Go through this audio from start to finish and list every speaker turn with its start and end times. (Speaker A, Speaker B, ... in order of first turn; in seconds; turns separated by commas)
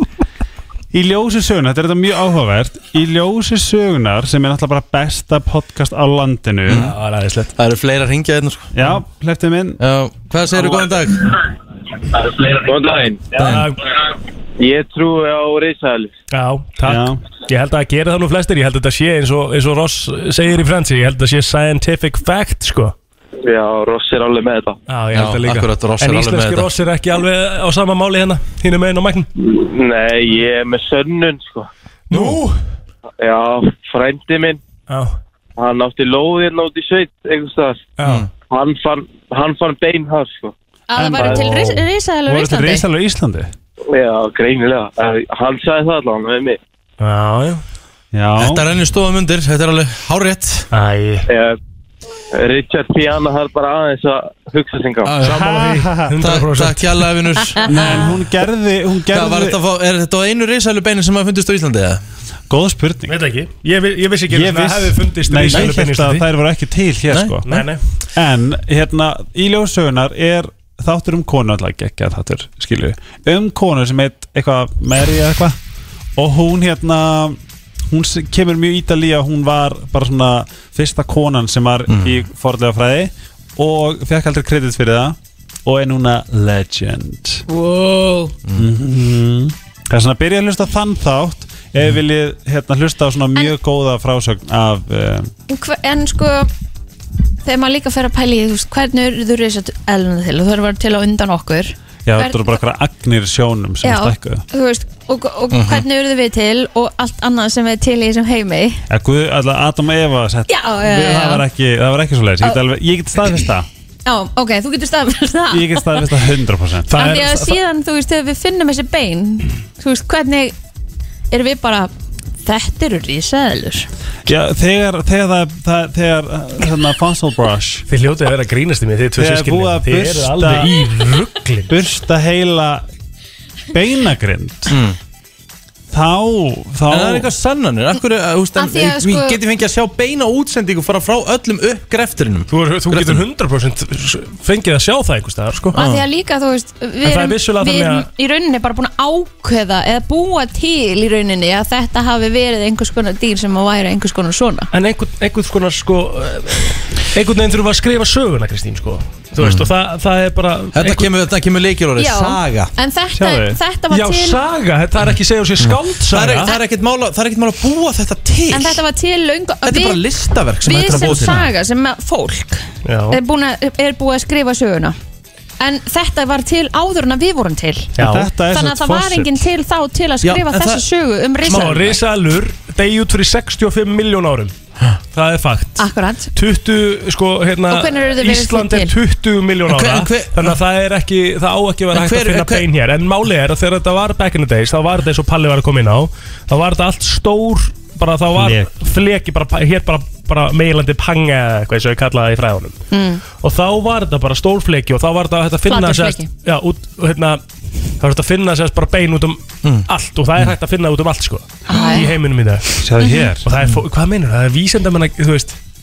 Speaker A: 0.9-6.9, Speaker B: 6.7-6.9, Speaker C: 6.7-7.5, Speaker B: 7.5-8.7, Speaker A: 8.7-9.8, Speaker B: 9.8-11.2, Speaker D: 12.1-13.3, Speaker B: 13.3-13.7, Speaker C: 13.3-13.8, Speaker D: 14.6-16.1, Speaker C: 16.3-22.9, Speaker A: 16.8-17.2, Speaker D: 23.4-24.8, Speaker C: 24.9-29.3, Speaker B: 25.1-26.7, Speaker D: 29.4-31.7, Speaker C: 32.1-32.6, Speaker B: 32.1-32.4, Speaker D: 33.2-34.6, Speaker C: 34.9-35.1, Speaker D: 35.6-37.9, Speaker C: 38.0-38.2, Speaker D: 38.4-40.5, Speaker E: 40.9-42.9, Speaker A: 41.0-43.5, Speaker D: 43.9-46.6, Speaker C: 47.0-47.6, Speaker A: 48.1-48.6, Speaker B: 48.4-50.7, Speaker C: 50.7-51.2, Speaker D: 51.3-51.6, Speaker D: 52.3-55.2, Speaker B: 55.0-55.4, Speaker C: 55.2-57.0, Speaker A: 55.3-56.1, Speaker B: 56.2-58.1, Speaker A: 57.6-59.6, Speaker B: 59.1-62.0, Speaker A: 62.5-63.1, Speaker C: 63.1-66.2, Speaker A: 64.3-75.6, Speaker B: 67.1-67.4, Speaker C: 67.5-67.8, Speaker A: 76.2-77.4, Speaker A: 77.9-87.4, Speaker B: 81.9-82.2, Speaker E: 87.5-88.3, Speaker A: 88.5-95.3, Speaker E: 95.5-96.5, Speaker E: 97.4-102.6, Speaker A: 102.0-104.4, Speaker E: 103.8-108.8, Speaker B: 105.5-105.8, Speaker A: 108.9-113.7, Speaker E: 110.5-111.4, Speaker E: 114.0-116.1, Speaker A: 115.5-117.4, Speaker E: 116.9-120.5, Speaker E: 121.3-121.9, Speaker E: 122.4-123.9, Speaker A: 124.2-127.8, Speaker C: 127.9-131.7, Speaker A: 129.2-130.8, Speaker A: 131.7-132.8, Speaker A: 133.7-134.8, Speaker B: 134.7-135.0, Speaker A: 135.9-137.3, Speaker B: 136.9-143.2, Speaker E: 138.6-139.4, Speaker C: 142.5-145.8, Speaker B: 145.7-146.0, Speaker E: 145.7-154.7, Speaker C: 147.0-148.1, Speaker C: 154.7-161.1, Speaker B: 159.4-159.7, Speaker B: 160.7-162.7, Speaker E: 162.0-164.4, Speaker A: 163.1-163.6, Speaker C: 163.9-166.5, Speaker B: 165.6-168.8, Speaker E: 168.5-170.0, Speaker B: 169.6-171.5, Speaker E: 170.6-174.9, Speaker A: 170.9-171.4, Speaker C: 172.8-173.2, Speaker E: 175.6-178.0, Speaker C: 178.0-178.3, Speaker A: 178.0-179.4, Speaker E: 178.5-182.0, Speaker B: 180.2-180.8, Speaker C: 181.4-184.5, Speaker C: 185.1-202.8, Speaker E: 185.8-186.3, Speaker E: 187.7-188.9, Speaker B: 189.7-190.6, Speaker B: 191.9-192.7, Speaker A: 198.3-198.7, Speaker E: 202.9-203.2, Speaker C: 203.4-207.4, Speaker E: 205.7-206.3, Speaker C: 208.0-212.8, Speaker E: 211.7-212.1, Speaker A: 212.8-213.4, Speaker E: 213.0-213.3, Speaker C: 213.4-215.6